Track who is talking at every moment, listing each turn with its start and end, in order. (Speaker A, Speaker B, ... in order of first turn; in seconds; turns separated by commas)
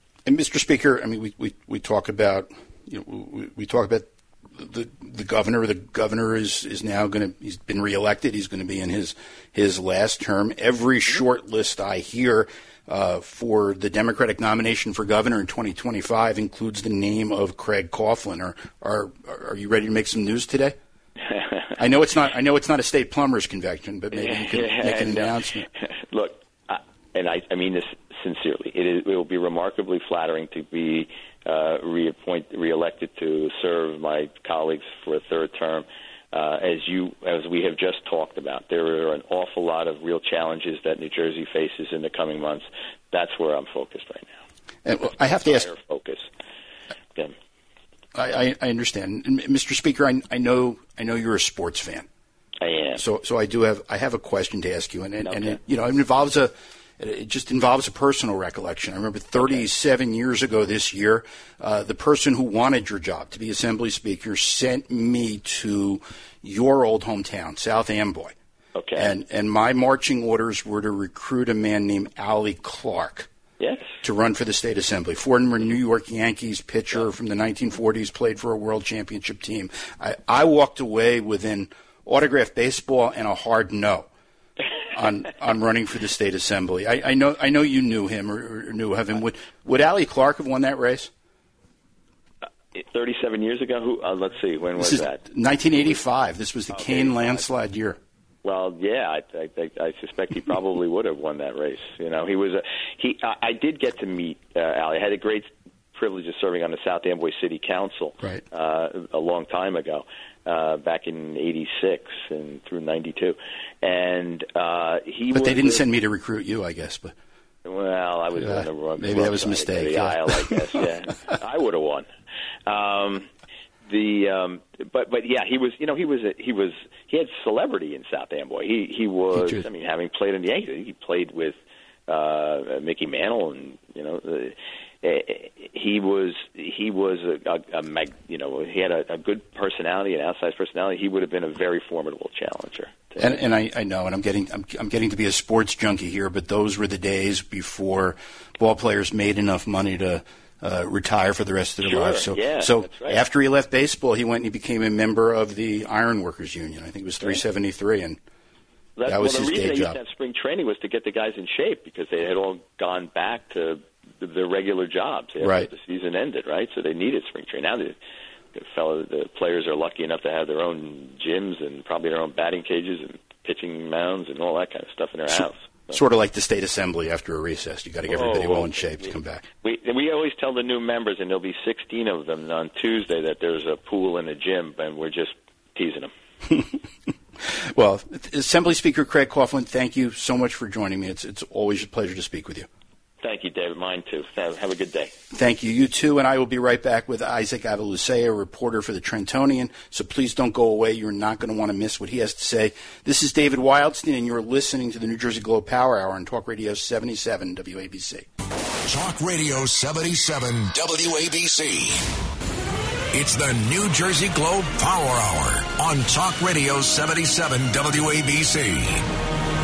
Speaker A: 0.2-20.8, Speaker B: 21.3-21.7, Speaker A: 21.8-25.7, Speaker B: 24.1-44.4, Speaker A: 44.8-45.7, Speaker B: 45.0-46.3, Speaker A: 48.1-52.1, Speaker B: 52.6-53.0, Speaker A: 53.0-68.3, Speaker B: 55.2-55.6, Speaker B: 68.7-69.1, Speaker A: 69.0-73.3, Speaker B: 73.6-74.0, Speaker A: 74.0-84.1, Speaker A: 84.9-91.1, Speaker B: 92.7-95.2, Speaker A: 94.8-98.0, Speaker B: 96.7-97.4, Speaker B: 98.4-115.8, Speaker A: 115.3-117.1, Speaker B: 117.6-122.1, Speaker A: 118.3-120.6, Speaker B: 122.7-123.3, Speaker B: 123.8-143.4, Speaker A: 129.3-129.7, Speaker A: 143.2-158.2, Speaker B: 151.8-153.2, Speaker B: 159.0-167.9, Speaker A: 159.1-160.0, Speaker A: 165.4-165.7, Speaker B: 168.5-175.9, Speaker A: 175.9-179.4, Speaker B: 178.1-186.1, Speaker A: 186.5-186.7, Speaker A: 187.4-192.7, Speaker B: 193.2-195.1, Speaker A: 195.3-208.3, Speaker C: 208.8-212.0, Speaker C: 213.1-219.1